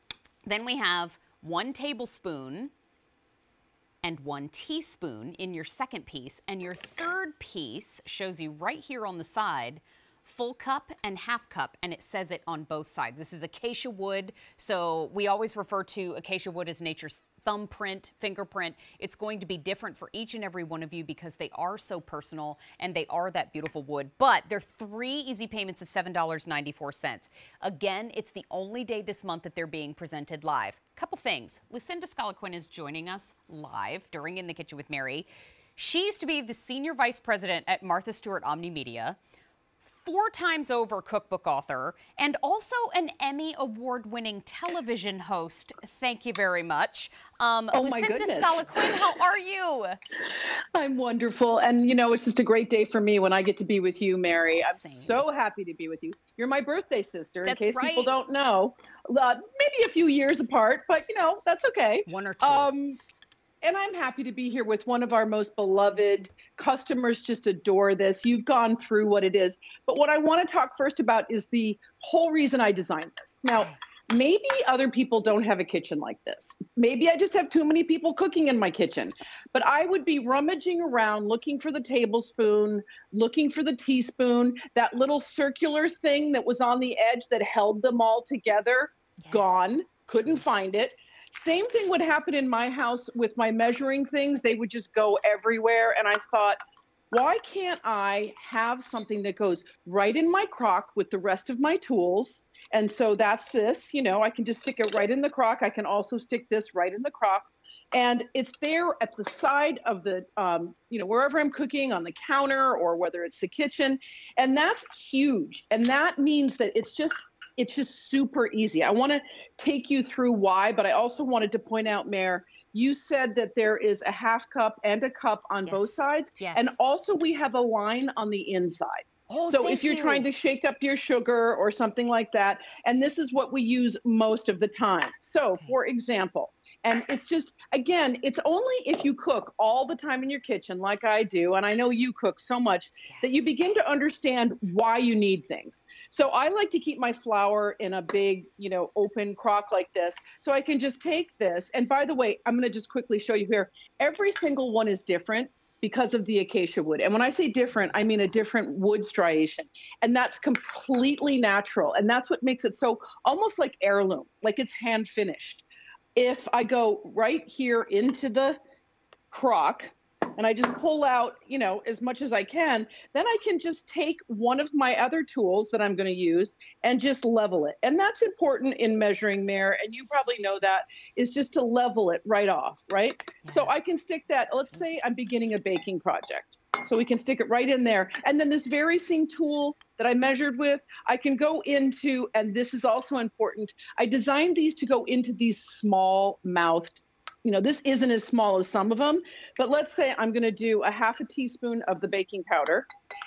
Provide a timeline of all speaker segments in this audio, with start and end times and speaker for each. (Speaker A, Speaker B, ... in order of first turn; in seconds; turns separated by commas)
Speaker A: 0.4-2.7, Speaker A: 4.0-39.2, Speaker A: 39.8-50.0, Speaker B: 47.7-49.0, Speaker B: 50.7-63.0, Speaker A: 54.2-55.2, Speaker A: 57.4-58.1, Speaker A: 62.0-62.7, Speaker B: 63.6-96.6, Speaker A: 89.2-89.7, Speaker B: 97.1-165.6, Speaker A: 125.7-126.8, Speaker A: 129.3-130.3, Speaker A: 143.1-143.4, Speaker B: 166.2-168.6, Speaker B: 169.3-202.9, Speaker A: 183.4-183.7